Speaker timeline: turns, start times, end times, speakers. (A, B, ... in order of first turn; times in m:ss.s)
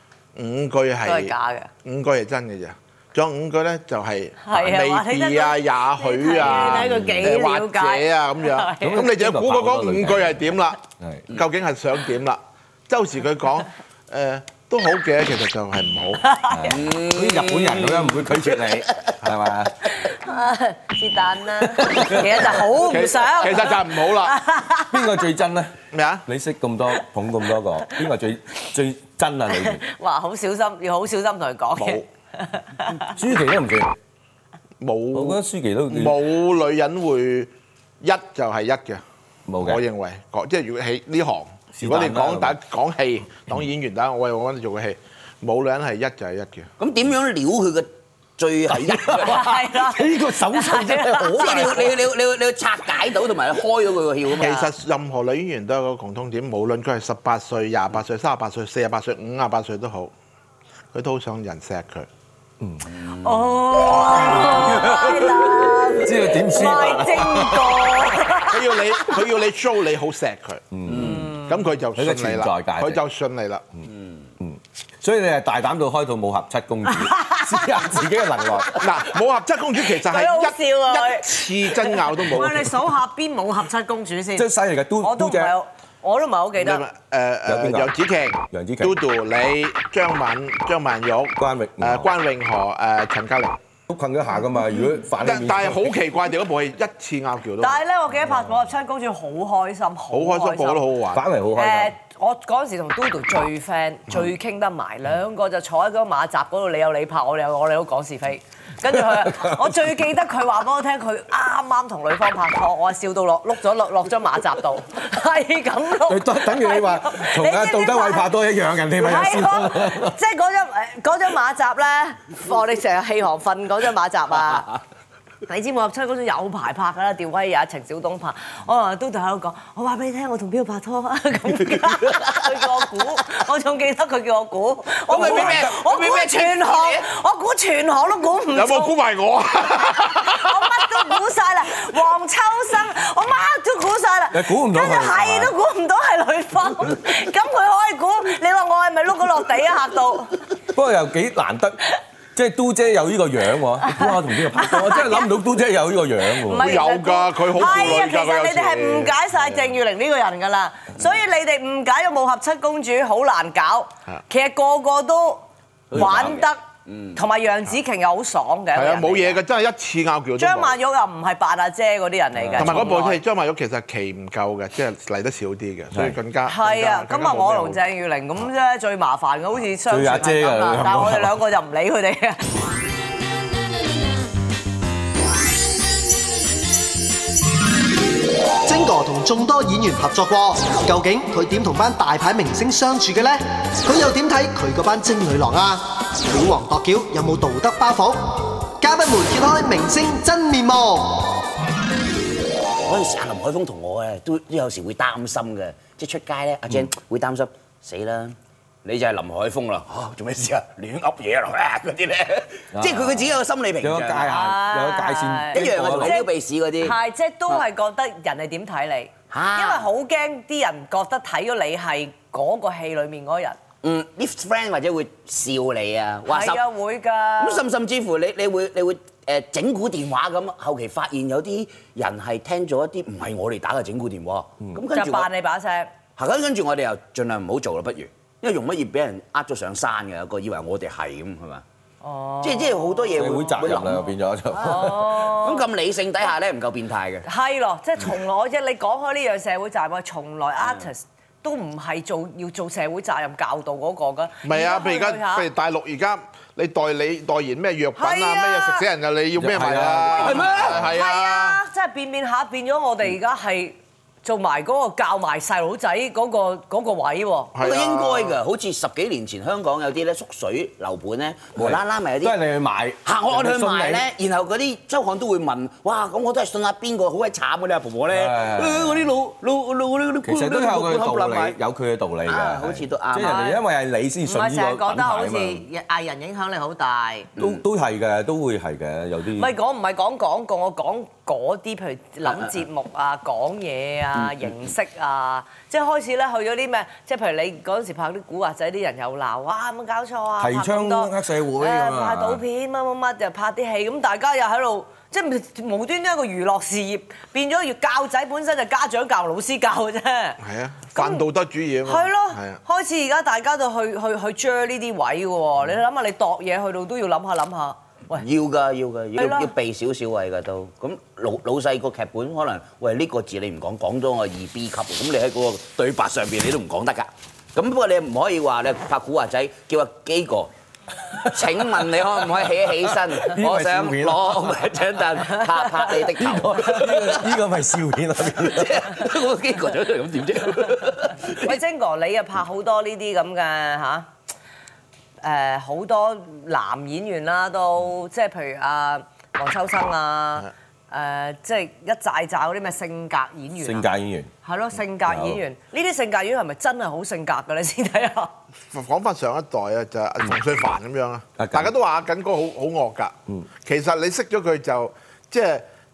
0:00.3-0:16.2 A
0:01.0-0:01.7 B
0:04.4-0:09.1 B
0:06.6-0:07.2 C
0:08.8-0:11.3 C
0:16.2-0:16.8 B
0:16.5-0:19.7 C
0:16.7-0:19.1 D
0:20.0-0:25.1 B
0:21.8-0:22.6 C
0:22.7-0:24.4 A
0:24.9-0:25.7 C
0:25.9-0:26.2 A
0:26.2-0:29.8 C
0:29.5-0:33.1 B
0:31.8-0:32.0 A
0:33.1-0:33.9 C
0:34.8-0:39.0 A
0:35.1-0:36.2 C
0:39.5-0:39.8 C
0:39.6-0:46.7 A
0:41.8-0:42.6 C
0:46.8-0:49.5 D
0:48.7-0:52.0 C
0:49.2-0:51.9 B
0:51.4-0:54.6 D
0:54.4-1:00.1 A
0:54.4-0:54.7 B
1:00.9-1:02.1 A
1:02.8-1:03.6 D
1:03.1-1:09.2 B
1:04.1-1:07.8 C
1:08.5-1:10.7 A
1:10.7-1:11.3 C
1:10.9-1:11.3 D
1:10.9-1:11.5 B
1:11.4-1:13.6 A
1:12.0-1:13.0 C
1:14.4-1:18.8 C
1:16.9-1:18.8 B
1:18.8-1:22.8 A
1:19.8-1:24.5 B
1:24.4-1:25.5 C
1:25.0-1:26.8 B
1:26.6-1:33.6 A
1:27.5-1:27.9 C
1:28.5-1:29.0 C
1:31.4-1:32.1 C
1:33.9-1:35.9 C
1:35.2-1:37.8 A
1:37.6-1:40.8 B
1:40.1-1:41.2 A
1:41.1-1:41.9 C
1:41.5-1:58.3 B
1:48.9-1:49.7 C
1:56.1-2:00.2 C
1:59.0-2:04.7 B
2:05.4-2:18.9 B
2:15.1-2:17.0 D
2:15.2-2:15.6 C
2:18.5-2:21.0 A
2:19.9-2:30.4 B
2:24.3-2:25.5 C
2:30.7-2:31.8 C
2:32.3-2:36.8 C
2:33.9-2:35.3 B
2:36.4-2:46.6 B
2:36.5-2:39.2 A
2:45.9-2:47.2 D
2:45.9-2:46.4 C
2:47.1-2:49.4 B
2:48.7-2:50.8 A
2:50.4-2:53.2 B
2:52.3-2:52.9 C
2:52.6-2:57.8 A
2:56.4-3:02.4 B
2:59.9-3:01.3 C
3:08.6-3:21.4 E
3:22.8-3:34.3 D
3:32.7-3:36.2 C
3:34.2-3:36.3 B
3:35.5-3:37.0 D
3:36.8-3:43.6 B
3:39.3-3:39.9 D
3:43.8-3:46.6 D
3:46.3-3:47.6 B
3:47.4-3:55.3 D
3:54.9-3:55.9 B
3:56.2-4:01.6 D
4:02.0-4:03.8 B
4:02.4-4:07.2 D
4:03.2-4:05.0 C
4:04.6-4:05.6 B
4:07.2-4:15.5 B
4:14.4-4:21.6 A
4:18.0-4:18.8 B
4:19.4-4:20.7 C
4:20.2-4:20.8 D
4:20.7-4:27.5 B
4:27.5-4:28.4 A
4:27.6-4:32.4 D
4:31.6-4:34.0 C
4:33.0-4:41.6 D
4:38.1-4:39.1 C
4:40.2-4:45.6 C
4:42.2-4:43.5 D
4:43.2-4:43.6 B
4:44.2-4:47.3 B
4:47.4-4:47.6 D
4:47.4-4:49.5 C
4:49.4-5:10.4 B
4:54.2-4:54.5 D
5:00.4-5:02.4 C
5:10.4-5:12.6 A
5:10.9-5:11.2 B
5:11.8-5:18.2 B
5:18.2-5:30.5 D
5:19.2-5:19.5 B
5:31.2-5:37.4 D
5:33.1-5:34.5 C
5:36.2-5:39.0 C
5:38.4-5:41.5 D
5:41.3-5:44.1 B
5:45.2-5:53.9 B
5:53.6-5:54.3 C
5:54.4-5:58.3 B
5:55.1-5:55.4 C
5:58.7-6:05.6 A
6:01.4-6:01.7 C